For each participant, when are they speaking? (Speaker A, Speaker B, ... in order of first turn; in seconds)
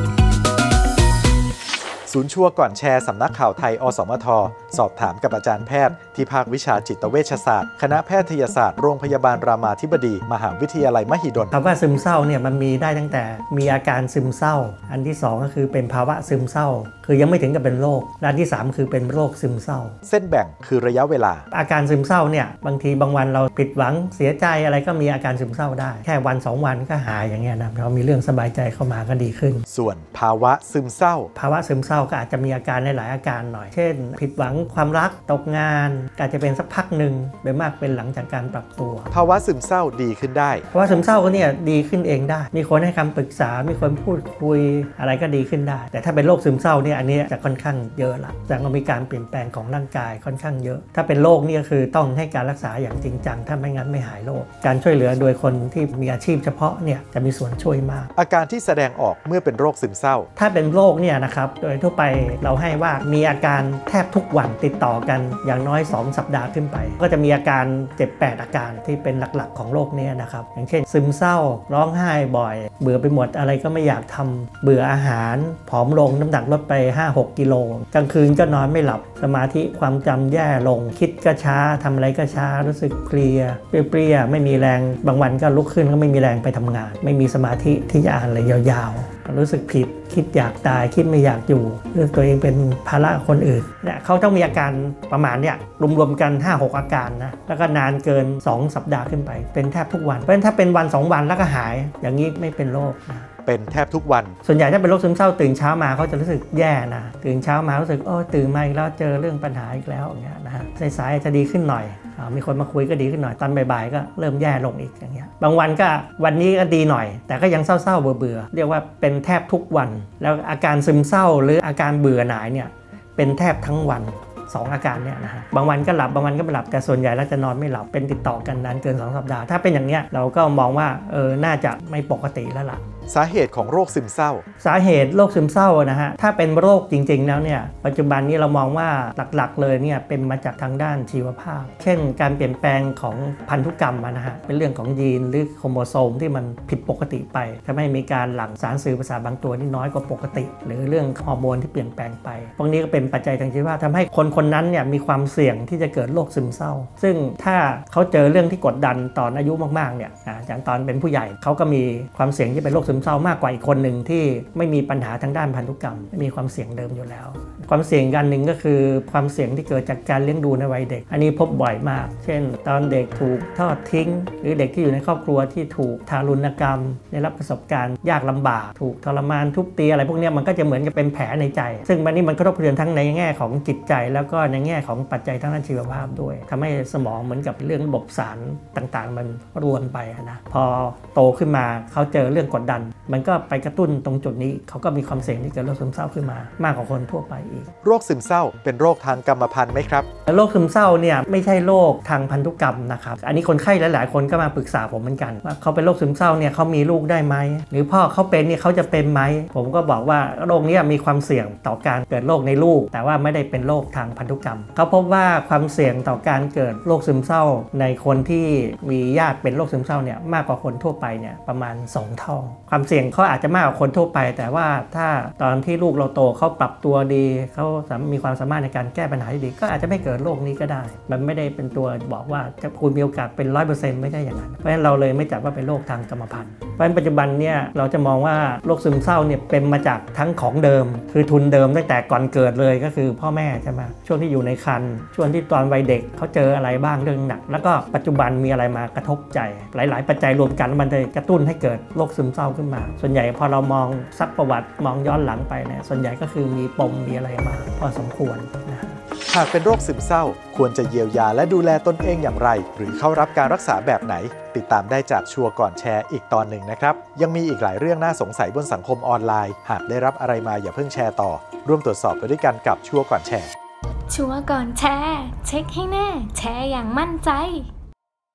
Speaker A: 2.1-11.5, 20.1-21.5, 29.7-31.3, 39.1-40.7, 58.2-60.3, 103.5-104.3, 133.1-134.5, 197.8-200.1, 259.3-273.5
Speaker B: 11.5-20.0, 21.5-29.6, 31.4-39.1, 40.7-58.1, 60.4-103.3, 104.5-132.8, 134.6-197.7, 200.3-259.0
Speaker C: 274.1-277.7